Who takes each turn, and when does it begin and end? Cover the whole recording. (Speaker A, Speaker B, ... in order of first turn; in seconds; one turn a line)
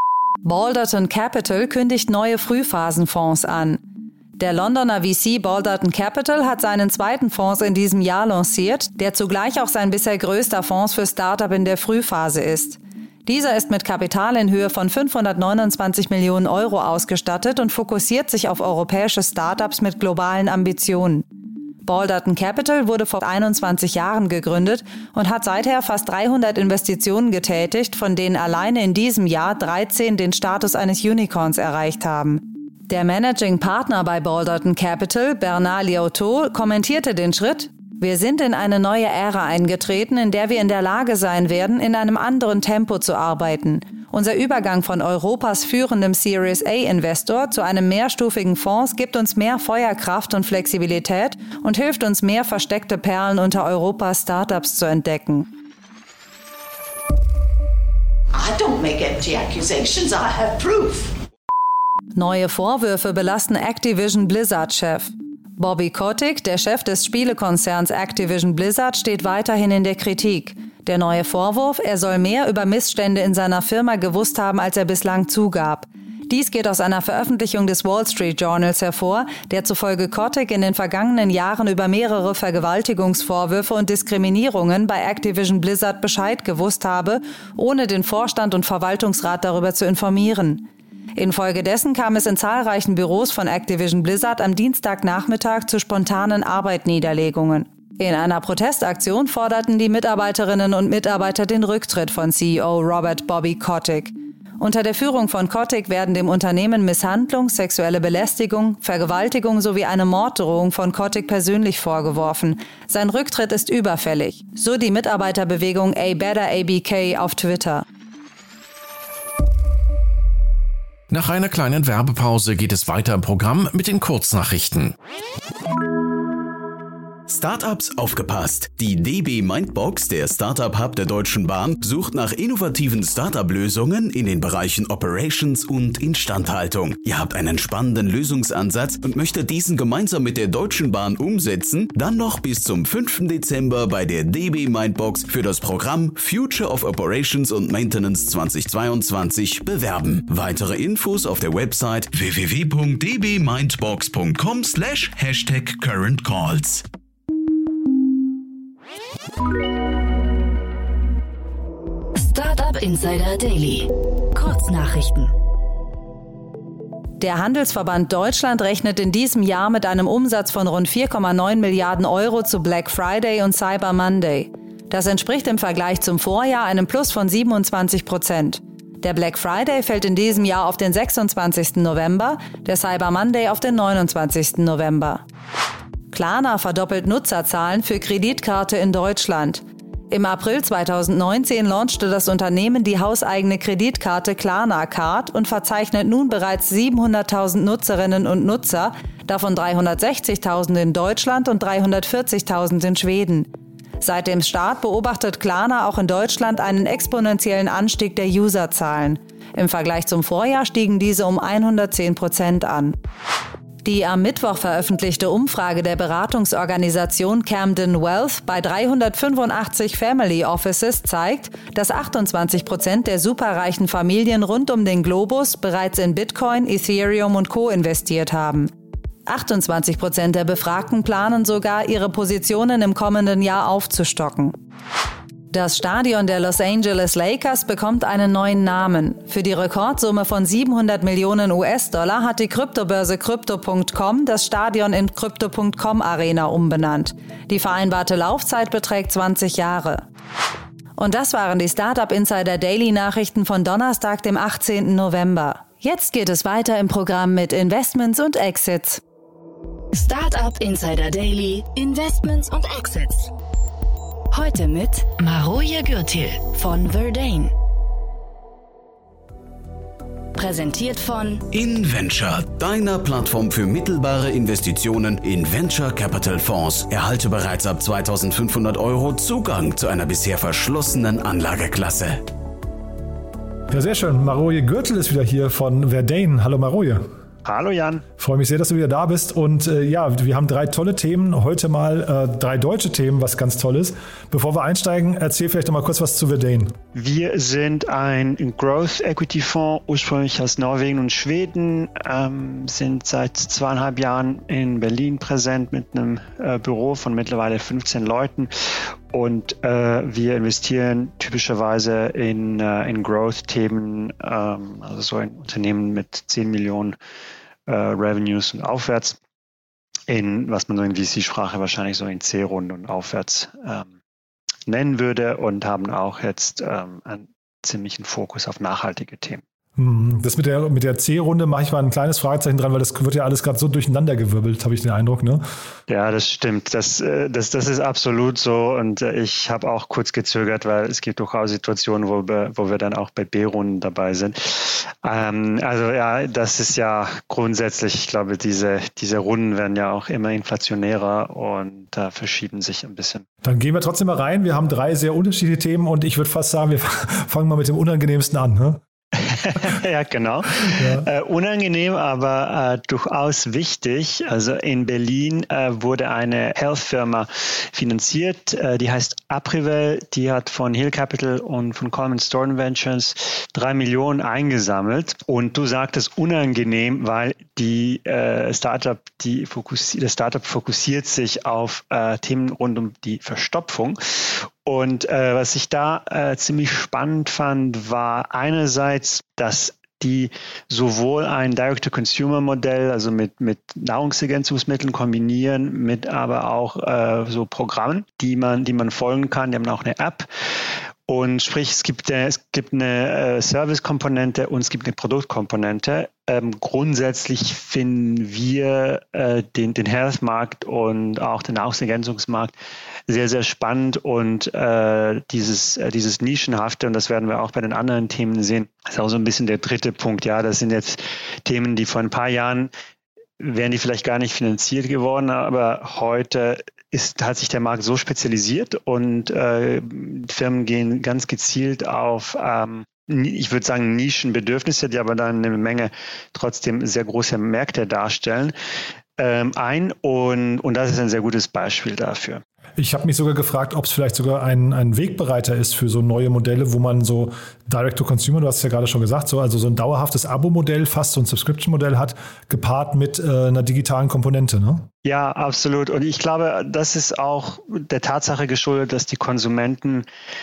Speaker A: 0.4-3.8
Speaker A: 4.4-21.3
Speaker A: 21.8-55.5
Speaker B: 58.3-61.1
Speaker A: 62.1-117.9
Speaker C: 121.1-124.9
Speaker D: 127.3-156.8
Speaker E: 162.2-165.3
Speaker A: 167.2-185.2
Speaker A: 186.1-213.0
Speaker A: 213.8-228.7
Speaker A: 229.3-234.6
Speaker A: 235.5-250.1
Speaker A: 251.0-259.0
Speaker E: 259.9-263.3
Speaker E: 264.3-267.5
Speaker E: 270.4-271.4
Speaker D: 271.5-282.2
Speaker F: 283.7-287.1
Speaker G: 287.4-288.0
Speaker F: 288.2-296.8
Speaker G: 296.9-308.5
Speaker G: 309.1-317.0
Speaker G: 317.7-319.2
Speaker G: 320.1-323.9
Speaker G: 324.7-329.4
Speaker F: 329.8-335.4
Speaker G: 335.9-353.3
Speaker F: 353.4-358.8
Speaker G: 359.2-400.3
Speaker F: 360.6-361.1
Speaker G: 401.1-412.6
Speaker G: 413.1-422.7
Speaker G: 423.4-438.5
Speaker G: 439.2-442.4
Speaker F: 442.8-454.9
Speaker G: 455.0-460.1